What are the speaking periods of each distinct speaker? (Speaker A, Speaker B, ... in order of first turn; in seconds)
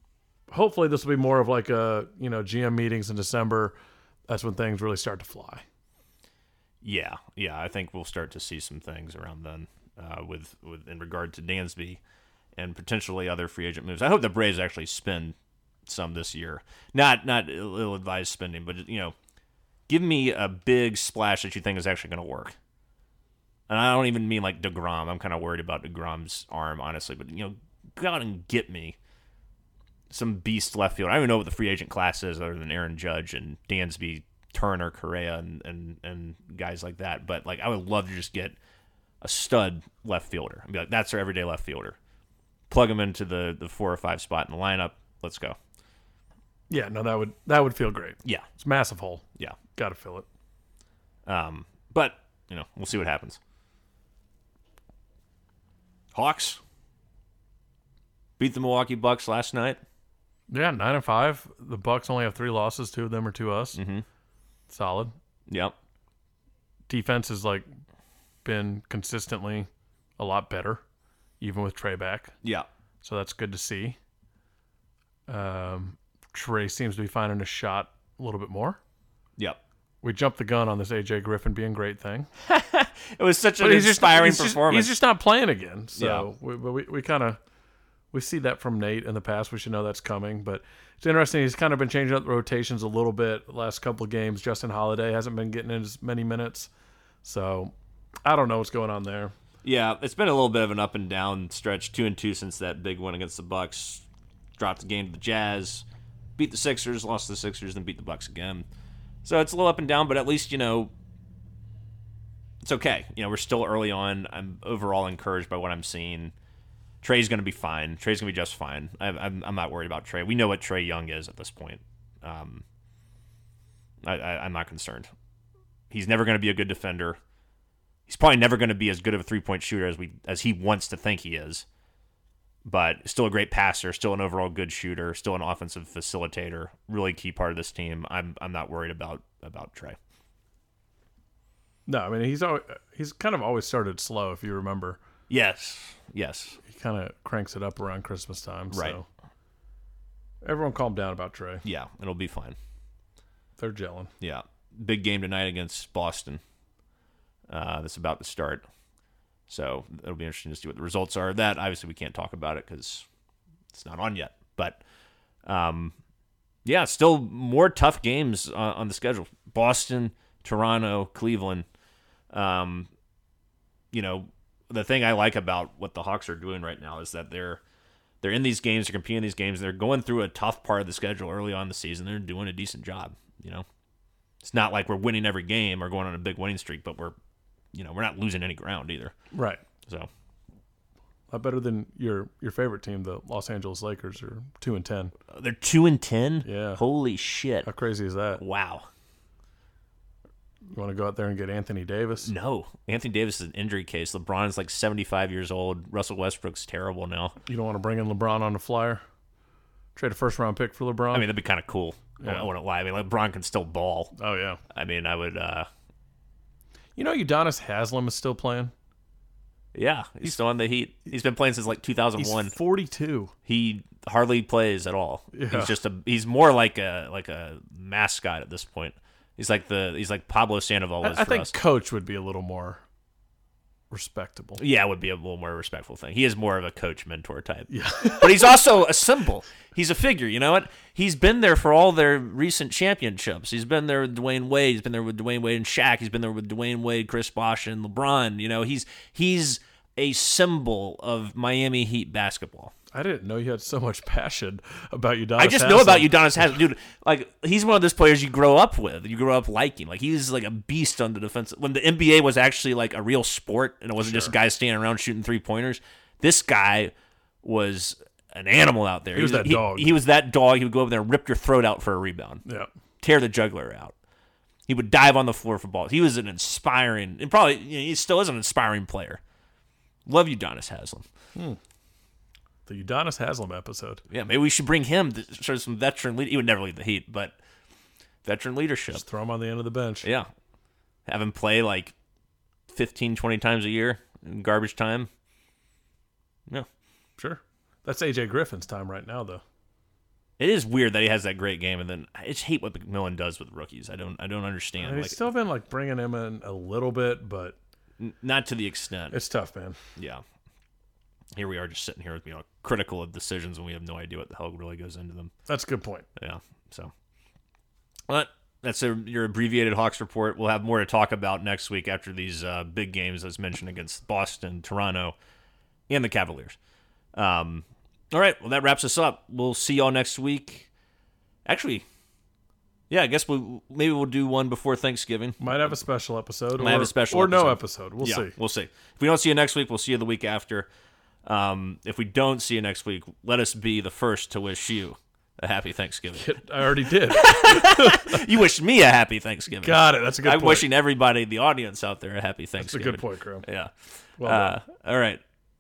Speaker A: 0.5-3.8, 4.3-5.6, 46.7-50.3, 60.5-63.8, 64.7-65.1, 66.9-67.7, 68.5-70.8, 71.4-72.3, 73.0-74.0, 75.3-78.8, 80.0-82.3, 83.6-87.4, 88.1-96.7, 97.2-97.7, 98.2-99.3, 141.9-145.0, 146.7-149.1, 150.4-151.7, 153.6-154.1, 189.3-189.6, 191.3-195.1, 196.4-196.8, 197.7-198.4, 200.7-202.3, 207.5-209.0, 210.0-211.3, 212.2-212.5, 214.2-214.6, 217.0-218.7, 222.2-223.3, 225.3-225.7, 231.0-232.8, 233.9-234.6, 237.7-238.5, 252.9-256.5, 264.0-264.3, 269.1-269.9, 282.7-284.0, 288.9-290.1, 297.2-299.4, 304.8-307.6, 309.1-309.8, 315.5-316.1, 335.4-338.4, 346.1-348.3, 349.6-350.6, 352.6-353.5, 354.2-354.6
Speaker B: 6.8-12.0, 12.6-19.1, 19.9-22.6, 23.7-29.0, 30.1-38.6, 39.2-42.0, 42.7-45.6, 51.3-53.4, 56.1-56.6, 58.4-59.8, 63.8-64.0, 65.5-65.8, 82.4-84.9, 86.0-86.3, 99.6-104.1, 104.6-105.8, 106.4-108.7, 109.2-110.9, 112.6-116.3, 117.0-122.7, 124.0-125.1, 125.9-127.2, 128.1-131.7, 132.7-140.0, 145.3-146.6, 148.7-149.0, 151.7-152.6, 154.2-156.4, 157.5-158.7, 159.5-163.1, 163.7-164.8, 165.4-166.0, 166.7-171.7, 172.3-172.9, 173.9-177.6, 178.2-183.7, 184.4-187.2, 187.7-189.2, 195.3-197.7, 198.4-198.9, 202.2-207.4, 211.1-214.1, 214.7-215.7, 219.7-222.5, 223.5-231.5, 234.6-252.7, 255.4-266.9, 267.4-272.4, 273.0-273.9, 274.7-279.2, 280.1-281.1, 284.1-287.4, 288.2-289.0, 290.0-290.3, 291.1-291.9, 292.7-295.1, 300.4-305.2, 308.0-309.2, 310.0-310.2, 311.4-315.3, 316.2-316.9, 318.1-325.2, 325.9-326.6, 327.1-330.7, 331.5-331.9, 332.9-335.4, 336.6-340.7, 341.2-346.3, 346.9-355.2